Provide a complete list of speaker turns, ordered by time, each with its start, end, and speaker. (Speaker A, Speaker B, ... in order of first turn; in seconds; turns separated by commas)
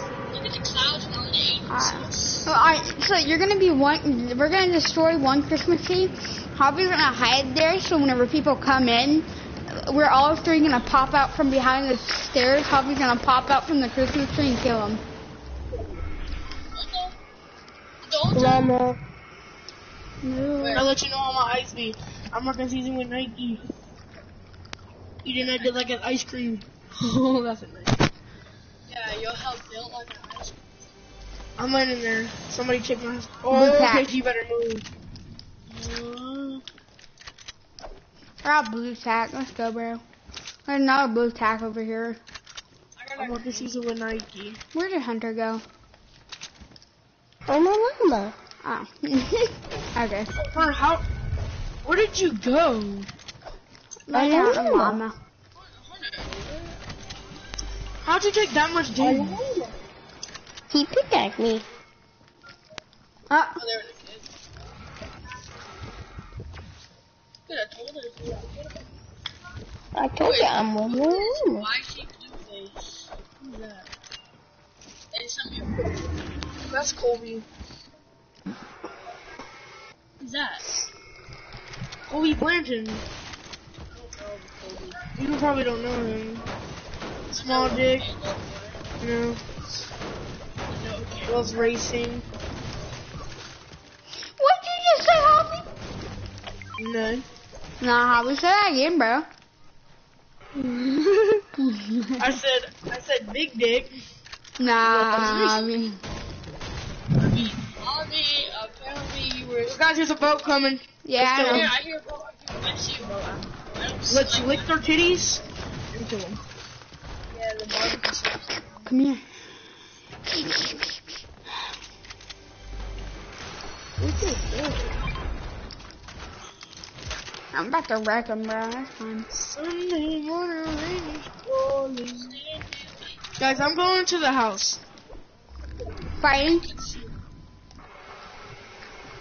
Speaker A: 0.3-2.5, Speaker B: 1.7-15.0, Speaker A: 16.7-17.1, Speaker A: 18.0-18.7, Speaker C: 18.3-19.0, Speaker B: 20.2-20.8, Speaker A: 20.6-20.9, Speaker D: 20.7-23.7, Speaker D: 25.2-28.0, Speaker A: 25.6-25.9, Speaker A: 28.9-30.6, Speaker D: 31.6-34.9, Speaker B: 33.5-34.1, Speaker A: 35.7-36.6, Speaker B: 38.4-40.0, Speaker B: 40.7-42.2, Speaker A: 43.0-43.7, Speaker D: 43.2-44.6, Speaker B: 44.7-45.6, Speaker C: 47.5-48.3, Speaker B: 48.6-50.3, Speaker D: 50.5-51.0, Speaker D: 51.8-53.1, Speaker B: 54.1-55.1, Speaker C: 54.1-55.0, Speaker A: 55.6-56.8, Speaker D: 58.0-59.4, Speaker C: 59.0-59.7, Speaker C: 60.7-61.6, Speaker B: 63.3-63.6, Speaker A: 63.6-64.3, Speaker A: 67.5-68.7, Speaker C: 69.9-71.7, Speaker A: 70.2-73.9, Speaker A: 75.1-76.0, Speaker D: 76.7-77.5, Speaker A: 80.2-80.7, Speaker D: 82.1-83.0, Speaker A: 83.9-85.1, Speaker D: 85.2-86.5, Speaker D: 87.3-88.1, Speaker A: 87.3-88.9, Speaker D: 89.0-89.4, Speaker A: 90.7-91.5, Speaker D: 91.3-92.2, Speaker B: 94.4-95.7, Speaker D: 96.8-97.2, Speaker B: 97.8-99.3, Speaker B: 101.6-102.3, Speaker D: 102.2-103.9, Speaker B: 104.6-106.0, Speaker D: 104.8-105.7, Speaker D: 107.3-107.6, Speaker A: 107.8-109.8, Speaker D: 109.7-111.7, Speaker B: 111.0-111.7, Speaker A: 111.4-114.8, Speaker D: 114.1-116.4, Speaker A: 117.3-118.8, Speaker B: 118.8-119.2, Speaker B: 120.2-121.2, Speaker C: 124.0-125.0, Speaker B: 127.5-129.3, Speaker D: 129.3-132.3, Speaker C: 131.5-132.3, Speaker A: 132.3-133.0, Speaker D: 133.4-134.8, Speaker B: 136.2-136.7, Speaker A: 136.6-137.1